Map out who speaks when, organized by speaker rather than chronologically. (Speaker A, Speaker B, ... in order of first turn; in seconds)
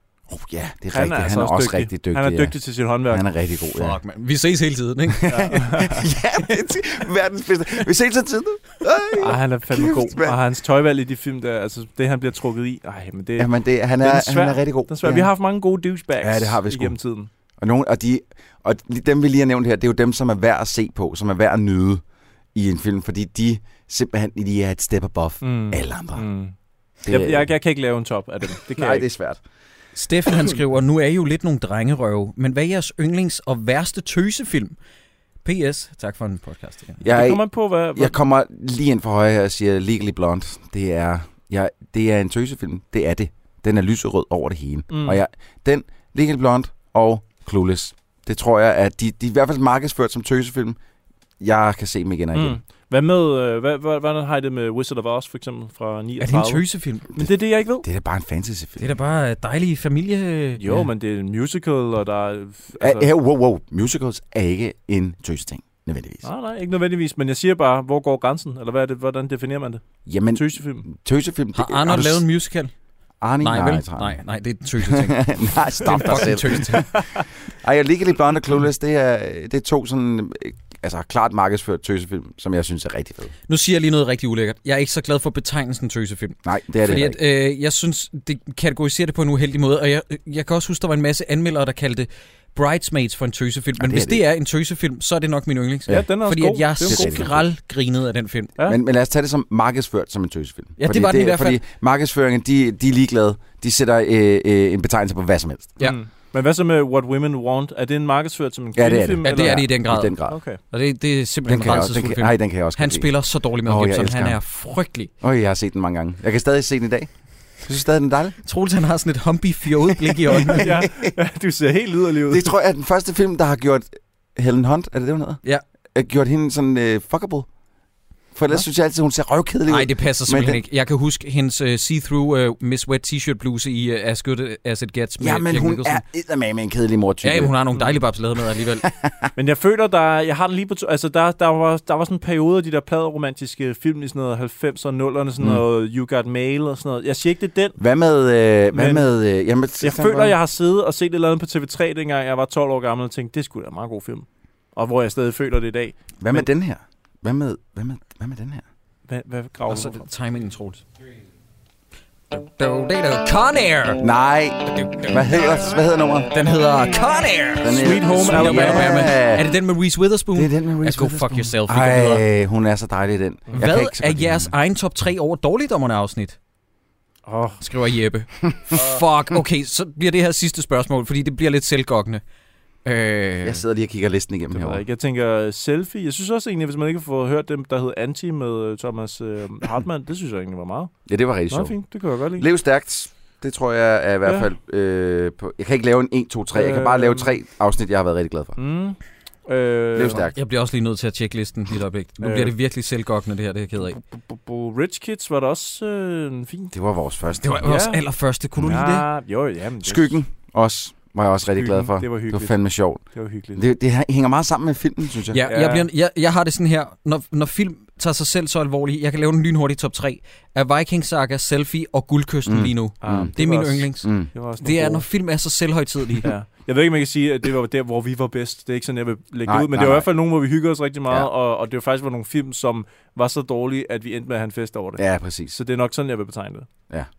Speaker A: 0.3-2.5, 3.1-4.0, 5.2-10.4, 13.4-15.3, 16.2-16.9, 17.6-22.0, 22.6-26.3, 27.1-27.5, 28.7-29.4, 37.0-37.4, 37.9-50.8, 51.4-52.6, 57.8-58.9, 62.8-66.3, 70.1-72.3, 73.2-74.2, 74.8-83.3, 86.4-87.2, 93.8-94.2, 96.6-97.4, 98.7-105.8, 108.8-110.4, 111.5-113.1, 113.6-114.4, 115.2-117.1, 117.6-118.4, 120.3-121.1, 122.3-125.4, 125.9-127.5, 128.3-130.6, 135.2-137.5, 138.8-139.3, 147.8-150.4, 156.2-158.6, 164.0-166.3, 167.6-169.5, 170.3-174.5, 183.4-184.8, 191.1-191.8, 192.4-198.6, 199.9-200.3, 206.7-207.7, 209.8-215.4, 222.4-223.3, 224.0-224.3, 229.5-230.1, 235.0-235.6
Speaker B: 0.9-3.2, 5.3-6.0, 9.2-17.3, 25.4-26.5, 27.1-29.1, 37.1-38.1, 44.9-45.2, 52.3-57.9, 60.6-63.1, 66.2-70.9, 76.1-77.2, 95.9-97.3, 105.8-109.7, 110.3-110.6, 120.5-122.5, 139.4-147.8, 148.7-149.1, 149.8-156.5, 159.1-160.0, 167.7-169.1, 177.3-177.6, 184.5-190.9, 191.5-192.5, 194.2-194.5, 196.5-197.3, 198.6-200.3, 202.2-202.5, 204.0-206.7, 207.6-208.0, 208.6-210.2, 211.5-213.6, 215.4-215.9, 223.0-225.0, 226.2-236.7
Speaker C: 3.8-5.7, 29.9-34.8, 35.4-37.0, 56.2-57.1, 58.8-60.9, 71.5-72.7, 73.4-76.9, 83.5-98.5, 100.8-101.6, 109.2-115.1, 118.4-120.8, 129.7-136.0, 137.2-138.9, 159.7-160.8, 162.3-164.1, 164.7-165.2, 166.3-172.2, 173.6-176.4, 177.6-182.2, 182.8-183.6, 200.3-204.0, 207.4-209.1, 215.3-226.3